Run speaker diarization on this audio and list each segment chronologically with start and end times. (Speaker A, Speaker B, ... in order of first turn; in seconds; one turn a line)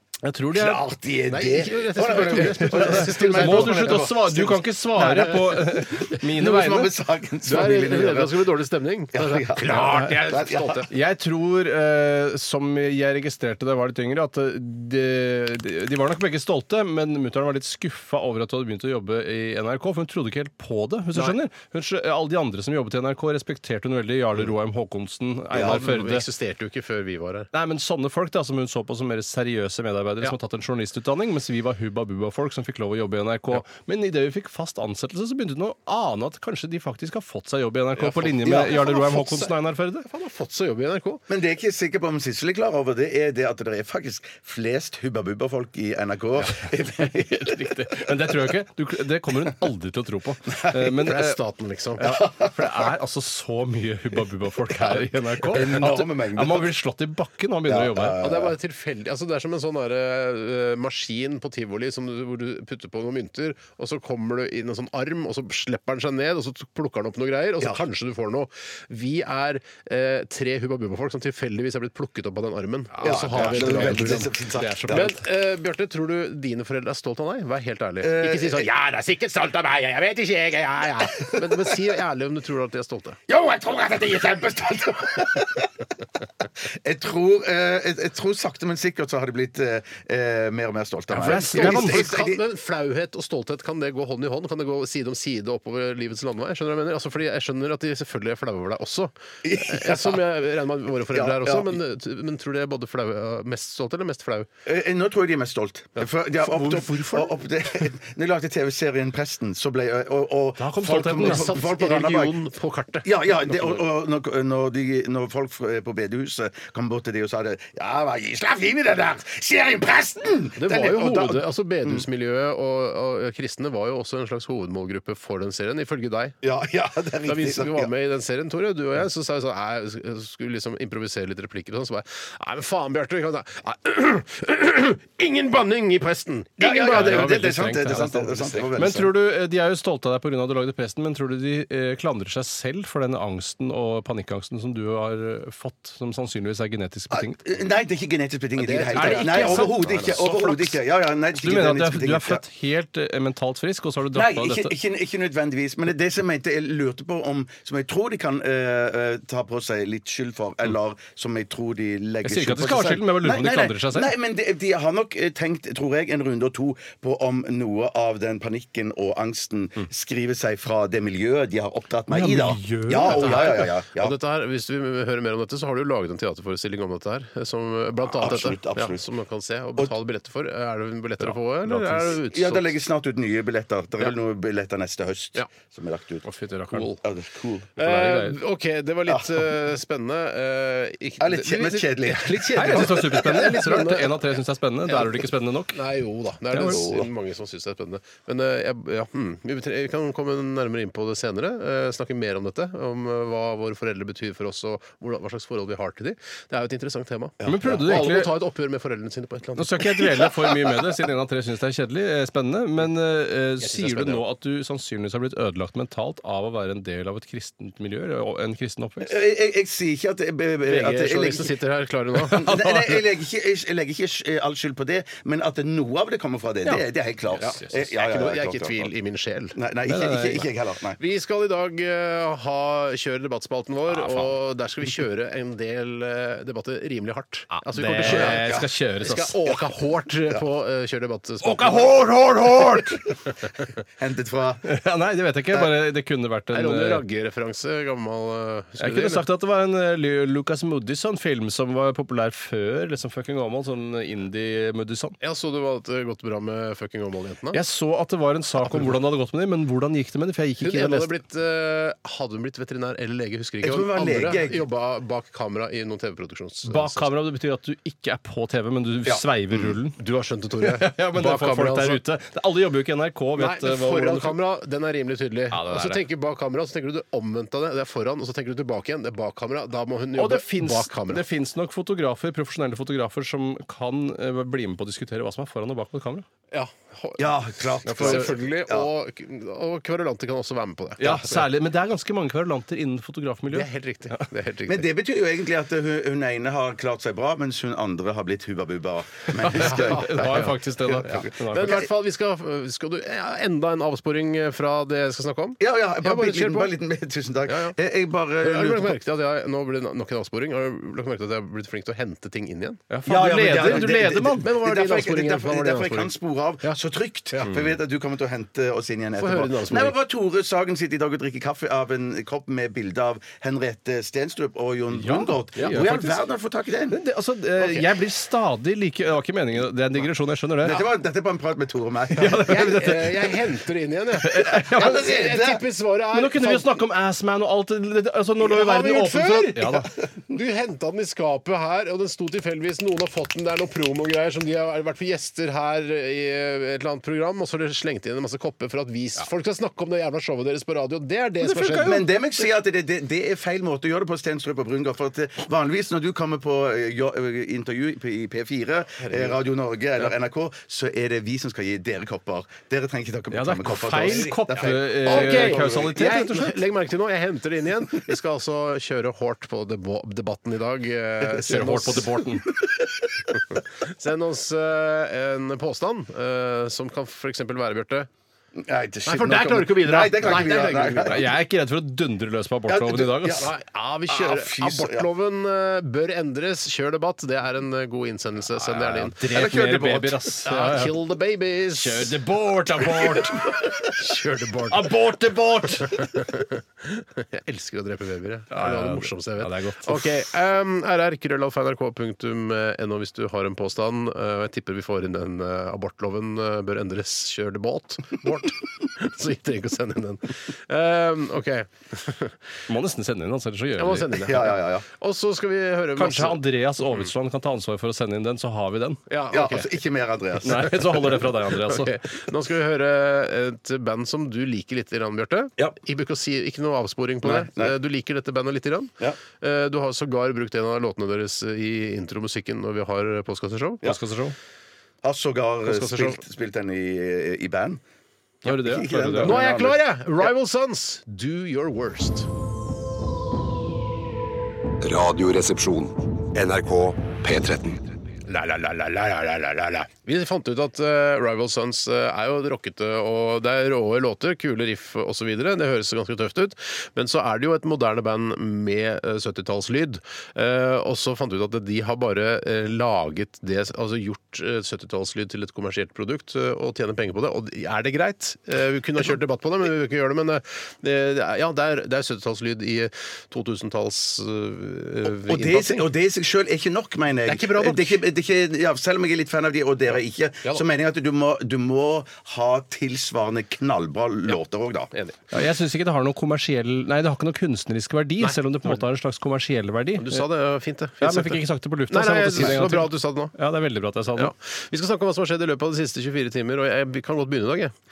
Speaker A: 0.2-0.8
Speaker B: 0.5-8.4
Speaker C: 1.3-4.1
Speaker A: 2.1-6.9
Speaker C: 5.0-5.5
Speaker C: 7.4-10.9
Speaker B: 9.1-10.9
Speaker A: 10.9-26.2
Speaker C: 25.5-27.5
Speaker A: 27.5-40.0
Speaker C: 38.2-41.2
Speaker B: 38.3-38.6
Speaker B: 41.3-48.1
Speaker A: 46.5-51.4
Speaker C: 50.8-52.1
Speaker A: 52.0-58.2
Speaker B: 52.0-52.6
Speaker B: 54.9-56.7
Speaker B: 57.7-58.5
Speaker C: 58.2-74.3
Speaker A: 72.9-75.2
Speaker B: 73.0-75.1
Speaker C: 74.9-83.2
Speaker B: 78.0-78.7
Speaker B: 81.2-81.8
Speaker B: 83.3-85.7
Speaker B: 86.8-92.4
Speaker A: 91.1-92.0
Speaker C: 91.2-104.5
Speaker B: 99.4-100.2
Speaker B: 101.1-101.8
Speaker B: 104.7-112.4
Speaker C: 106.0-107.8
Speaker A: 110.6-111.5
Speaker C: 111.1-113.8
Speaker B: 113.0-122.0
Speaker C: 120.5-126.4
Speaker B: 126.4-127.9
Speaker C: 127.2-138.9
Speaker B: 136.6-139.1
Speaker A: 136.9-138.1
Speaker A: 138.7-147.4
Speaker B: 147.1-152.4
Speaker C: 148.6-150.6
Speaker A: 148.9-150.6
Speaker A: 151.4-154.7
Speaker B: 154.1-174.2
Speaker A: 162.2-164.1
Speaker A: 172.1-173.6
Speaker C: 173.1-182.7
Speaker B: 178.1-179.0
Speaker A: 181.2-182.0
Speaker B: 182.0-186.2
Speaker A: 186.2-187.0
Speaker B: 186.8-187.7
Speaker C: 187.8-194.2
Speaker A: 187.8-188.4
Speaker B: 189.1-189.4
Speaker B: 191.2-193.2
Speaker A: 192.6-195.8
Speaker C: 194.9-210.3
Speaker A: 196.5-196.8
Speaker B: 196.6-197.1
Speaker B: 207.4-207.9
Speaker A: 207.4-208.3
Speaker A: 209.6-219.1
Speaker C: 213.6-214.2
Speaker B: 219.0-221.5
Speaker C: 220.7-222.4
Speaker A: 222.2-223.0
Speaker B: 222.3-228.9
Speaker A: 227.4-227.8
Speaker C: 227.4-229.6
Speaker B: 229.6-231.0
Speaker A: 229.9-230.4
Speaker C: 231.0-242.0
Speaker A: 233.9-234.3
Speaker A: 237.5-239.4
Speaker B: 238.0-238.7
Speaker A: 241.4-243.0
Speaker B: 242.7-243.1
Speaker B: 244.0-244.6
Speaker A: 244.6-247.0
Speaker C: 246.5-249.2
Speaker A: 248.8-255.2
Speaker C: 255.2-257.6
Speaker A: 257.5-261.1
Speaker C: 260.6-267.1
Speaker B: 263.6-264.6
Speaker A: 266.6-270.0
Speaker B: 269.0-269.7
Speaker C: 270.0-272.0
Speaker A: 270.6-274.4
Speaker C: 273.4-281.2
Speaker A: 275.5-276.0
Speaker A: 280.1-286.2
Speaker C: 286.5-291.4
Speaker B: 287.2-288.9
Speaker A: 287.9-288.3
Speaker A: 291.0-294.3
Speaker C: 293.5-294.9
Speaker B: 294.7-301.8
Speaker A: 299.4-301.8
Speaker C: 299.5-306.7
Speaker B: 305.6-309.0
Speaker C: 307.5-307.7
Speaker C: 308.4-316.8
Speaker A: 312.9-314.5
Speaker B: 313.1-327.0
Speaker C: 319.2-319.9
Speaker A: 324.9-326.2
Speaker A: 326.9-330.8
Speaker B: 327.6-327.8
Speaker B: 330.6-332.7
Speaker A: 332.2-333.3
Speaker C: 332.3-336.7
Speaker A: 334.2-335.1
Speaker B: 334.5-335.6
Speaker A: 336.1-339.9
Speaker C: 338.4-352.1
Speaker A: 351.4-352.0
Speaker B: 351.7-365.9
Speaker C: 359.0-359.4
Speaker A: 363.3-366.6
Speaker C: 364.0-372.1
Speaker A: 371.4-372.5
Speaker B: 372.5-372.9
Speaker C: 373.3-378.1
Speaker B: 378.6-381.3
Speaker C: 379.0-381.2
Speaker A: 381.0-383.5
Speaker B: 382.7-383.5
Speaker C: 383.4-389.1
Speaker B: 384.1-385.1
Speaker A: 388.5-390.9
Speaker B: 388.8-390.2
Speaker C: 390.4-392.2
Speaker A: 391.7-393.5
Speaker C: 393.8-394.9
Speaker A: 394.7-396.0
Speaker C: 395.8-412.4
Speaker A: 398.5-400.1
Speaker A: 412.7-414.2
Speaker C: 413.8-416.4
Speaker B: 414.2-414.9
Speaker A: 415.9-419.0
Speaker C: 419.1-419.7
Speaker B: 419.3-421.2
Speaker A: 420.4-422.0
Speaker C: 421.4-433.8
Speaker B: 427.2-427.8
Speaker A: 433.8-434.3
Speaker B: 435.0-437.8
Speaker C: 435.6-436.2
Speaker B: 438.4-440.3
Speaker A: 438.4-439.4
Speaker C: 439.2-442.3
Speaker D: 444.8-447.9
Speaker C: 448.3-475.9
Speaker B: 475.2-484.9
Speaker C: 477.2-478.0
Speaker C: 484.9-485.2
Speaker A: 485.3-490.2
Speaker C: 488.2-488.8
Speaker C: 490.0-493.3
Speaker A: 491.0-494.3
Speaker C: 494.2-497.7